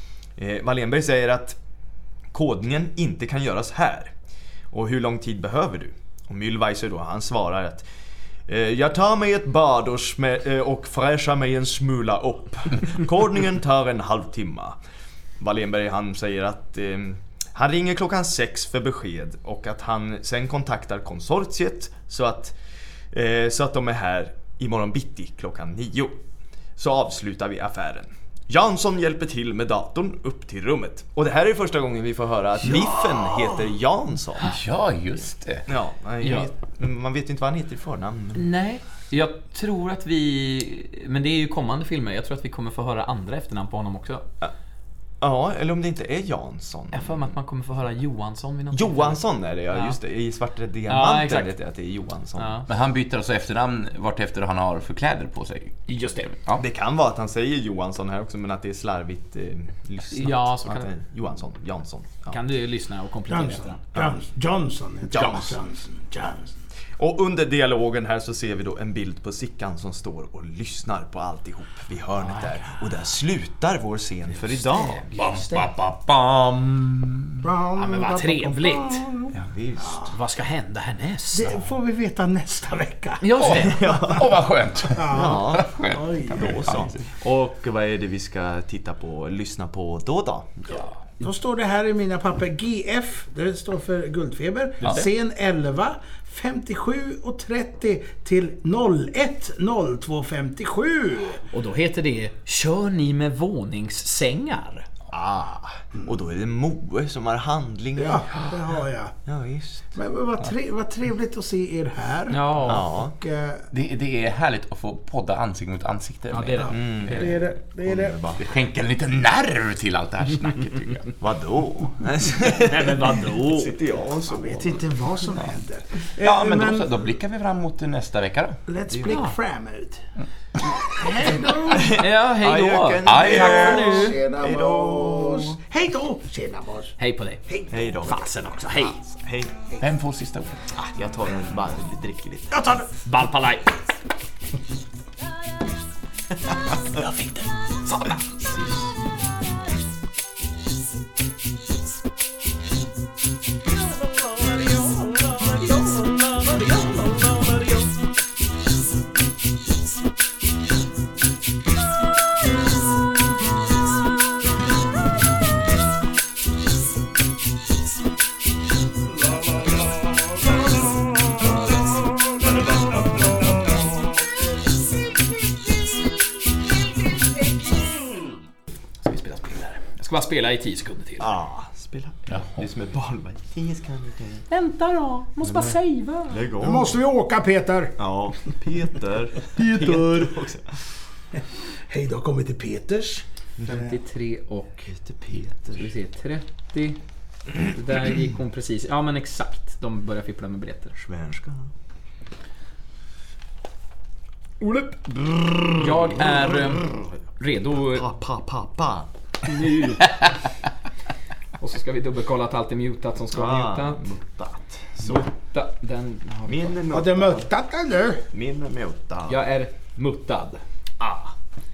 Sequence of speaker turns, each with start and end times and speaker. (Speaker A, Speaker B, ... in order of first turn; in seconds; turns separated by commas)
Speaker A: 0.4-1.6, Speaker A: 2.3-4.1, Speaker A: 4.7-7.8, Speaker A: 8.5-14.8, Speaker A: 15.4-22.6, Speaker A: 23.1-26.2, Speaker A: 26.8-34.6, Speaker B: 32.8-33.5, Speaker C: 34.4-35.7, Speaker A: 35.7-38.5, Speaker D: 38.3-44.2, Speaker A: 45.2-47.3, Speaker D: 46.9-50.0, Speaker A: 48.7-52.6, Speaker D: 50.9-51.5, Speaker D: 52.4-52.6, Speaker C: 52.7-55.8, Speaker D: 55.9-56.4, Speaker A: 56.6-62.4, Speaker D: 60.1-60.9, Speaker D: 62.3-63.8, Speaker B: 63.3-66.6, Speaker A: 65.1-65.5, Speaker C: 65.1-65.5, Speaker A: 67.0-75.0, Speaker D: 72.2-72.8, Speaker D: 74.7-75.7, Speaker C: 75.1-77.4, Speaker B: 77.4-80.1, Speaker D: 77.8-79.0, Speaker A: 79.3-80.1, Speaker D: 80.0-81.6, Speaker B: 81.3-84.2, Speaker D: 83.2-83.7, Speaker C: 83.4-87.0, Speaker A: 83.6-84.3, Speaker B: 84.9-86.9, Speaker A: 85.1-90.8, Speaker B: 91.2-101.4, Speaker D: 101.5-104.9, Speaker A: 105.1-108.4, Speaker B: 108.0-109.2, Speaker A: 109.2-109.8, Speaker B: 109.9-113.6, Speaker D: 112.3-112.9, Speaker A: 112.6-113.1, Speaker C: 113.7-117.4, Speaker D: 116.3-117.4, Speaker B: 116.7-118.3, Speaker A: 116.7-118.4, Speaker C: 118.4-121.2, Speaker A: 121.2-124.8, Speaker D: 122.5-123.7, Speaker B: 124.2-126.9, Speaker C: 126.2-128.6, Speaker B: 128.7-130.0, Speaker A: 128.9-129.2, Speaker D: 129.1-129.3, Speaker B: 130.8-132.0, Speaker A: 131.7-135.6, Speaker D: 131.8-134.2, Speaker C: 133.0-134.1, Speaker B: 133.2-138.2, Speaker D: 137.0-137.4, Speaker A: 137.7-138.2, Speaker D: 137.9-139.0, Speaker A: 139.1-139.6, Speaker C: 139.8-140.7, Speaker A: 140.7-142.7, Speaker B: 142.5-142.9, Speaker D: 143.0-143.7, Speaker C: 146.9-147.5, Speaker D: 147.8-148.2, Speaker D: 154.6-157.6, Speaker D: 179.0-181.3, Speaker A: 181.2-184.5, Speaker C: 182.3-182.7, Speaker D: 184.5-186.5, Speaker A: 186.3-187.0, Speaker B: 186.6-188.0, Speaker A: 188.0-190.8, Speaker B: 189.5-190.4, Speaker B: 191.3-193.8, Speaker A: 193.6-193.8, Speaker D: 193.7-194.9, Speaker A: 194.9-195.8, Speaker D: 195.6-197.0, Speaker D: 197.6-200.9, Speaker A: 200.9-201.7, Speaker A: 204.6-207.1, Speaker D: 205.8-208.1, Speaker A: 207.8-209.6, Speaker D: 209.4-210.1, Speaker D: 211.6-214.0, Speaker A: 213.3-215.3, Speaker D: 215.0-216.8, Speaker A: 216.5-217.5, Speaker B: 216.9-218.2, Speaker A: 218.3-219.4, Speaker D: 219.3-220.6, Speaker A: 221.0-221.3